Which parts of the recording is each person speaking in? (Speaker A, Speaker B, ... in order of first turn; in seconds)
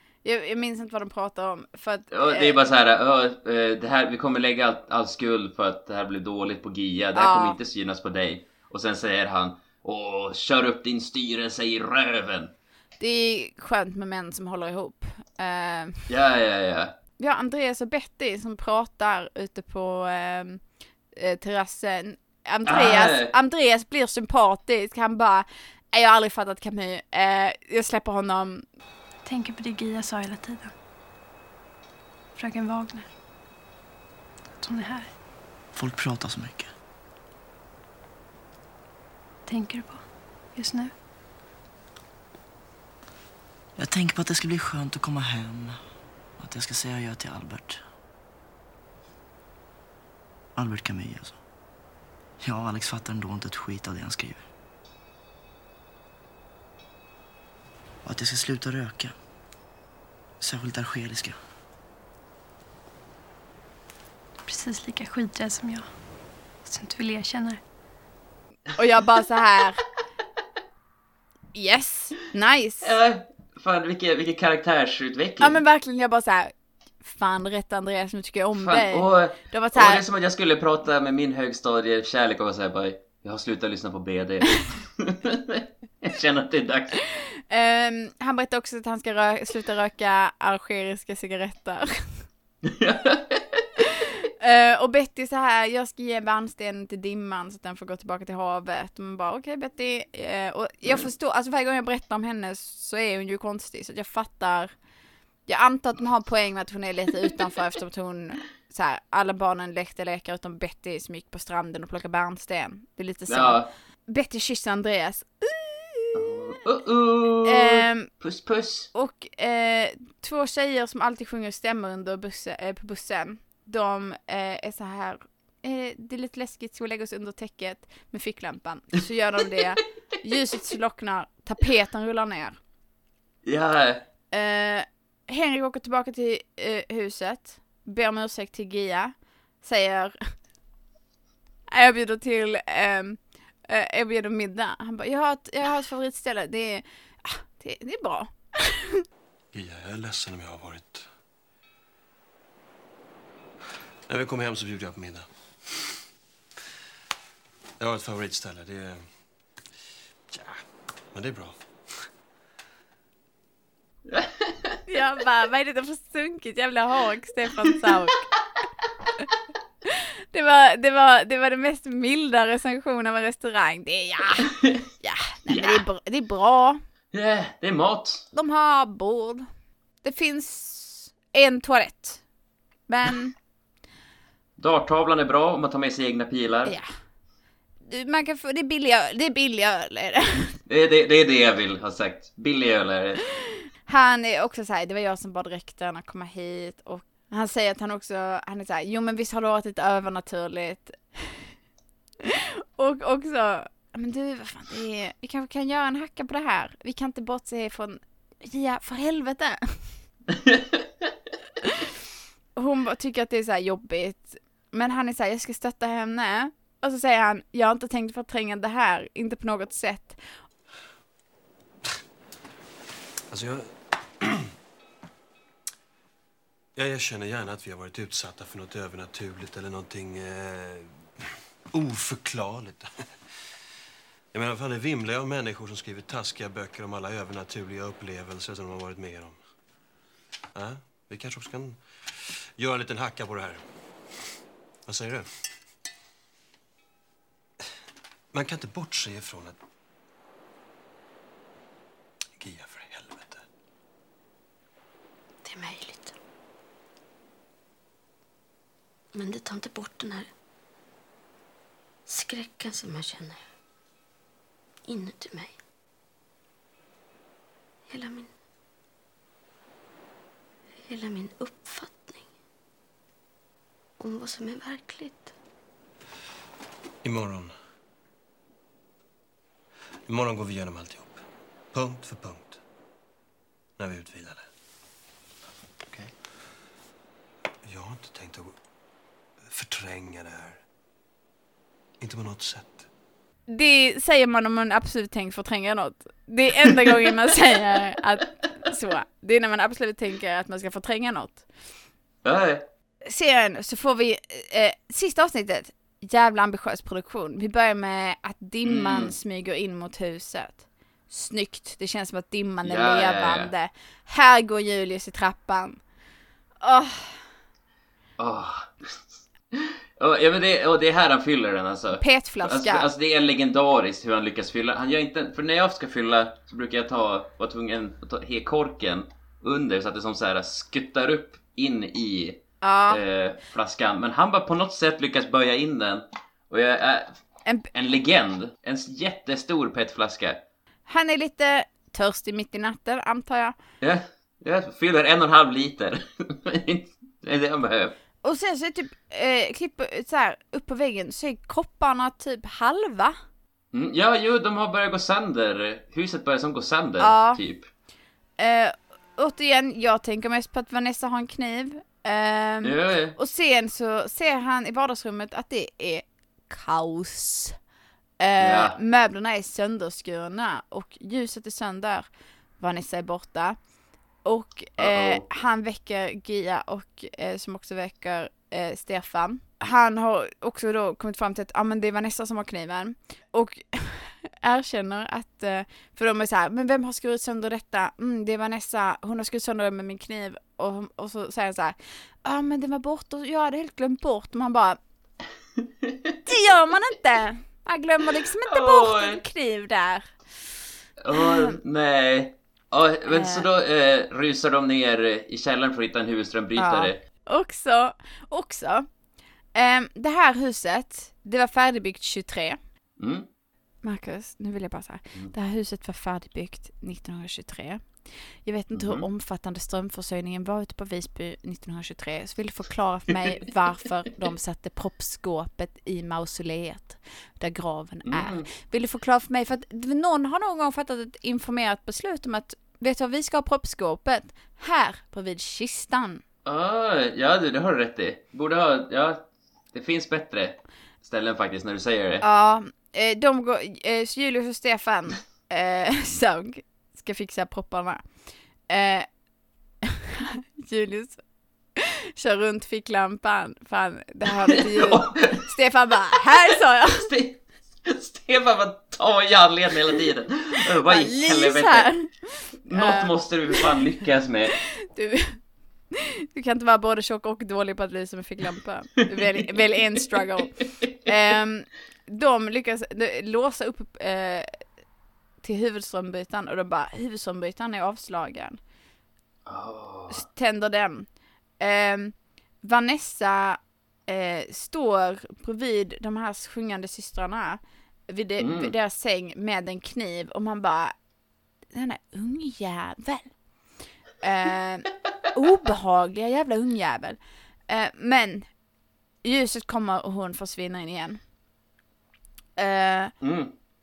Speaker A: 0.2-2.6, 7.2-7.6, 13.0-16.0, 17.2-20.6, 21.1-28.6, 68.8-69.8, 71.5-73.0, 75.4-80.0, 87.5-92.3, 94.4-104.7, 105.5-116.4, 117.5-118.1, 118.9-132.6, 134.3-140.2, 141.7-149.0, 164.9-168.3, 170.3-176.8, 178.3-179.5, 180.0-182.2, 182.9-183.3, 187.8-190.5, 193.9-201.5, 202.8-210.0, 212.6-220.3, 293.5-301.5, 303.1-315.8, 316.6-317.3, 322.0-322.9, 332.6-333.0, 340.9-343.6, 348.2-353.2, 357.0-357.4, 358.4-367.6, 368.2-373.6, 374.2-394.8, 396.3-400.1, 401.1-401.6, 403.1-403.5, 406.6-408.9, 409.6-412.6, 413.8-436.2, 442.2-448.0, 448.7-449.1, 450.6-451.2, 451.8-457.1, 460.9-463.7, 464.9-465.4, 466.0-474.5, 475.4-478.6, 480.1-481.1, 481.6-490.9, 491.7-493.3, 494.2-498.5, 499.2-501.2, 502.6-503.1
Speaker B: 2.1-12.5, 16.1-16.9, 22.7-23.3, 72.8-75.6, 78.5-87.0, 92.6-93.7, 113.3-113.7, 116.2-118.9, 133.4-134.0, 164.1-164.8, 175.5-175.8, 177.1-178.2, 184.6-186.7, 190.7-193.3, 302.2-302.6, 308.6-309.1, 312.6-313.5, 318.2-319.0, 319.5-337.2, 337.7-340.4, 343.8-347.9, 353.7-357.7, 362.6-363.2, 368.4-368.8, 374.8-375.2, 398.5-399.2, 401.0-407.0, 413.0-413.3, 418.7-419.1, 428.1-428.5, 436.4-442.2, 454.7-455.5, 456.9-462.1, 462.6-464.6, 479.5-480.2, 488.4-488.7, 503.2-503.5
Speaker C: 29.2-30.7, 32.4-33.1, 34.6-35.2, 39.5-40.9, 64.5-65.9, 66.6-67.6
Speaker D: 35.7-36.7, 43.8-47.8, 50.5-51.4, 52.4-54.5, 58.0-59.2, 60.4-61.4
Speaker E: 149.5-151.1, 154.1-155.8, 157.8-159.1, 160.3-162.1, 223.3-224.5, 226.8-231.0, 231.7-232.9, 234.3-239.4, 240.6-243.7, 244.9-245.3, 248.3-249.6, 252.4-253.5, 277.0-277.5, 280.1-282.6, 283.8-284.4, 287.6-288.6, 289.4-290.6, 292.0-292.9
Speaker F: 255.4-256.1, 259.1-260.3, 262.1-263.4, 264.9-265.5, 267.9-268.3, 270.8-272.3, 274.0-275.3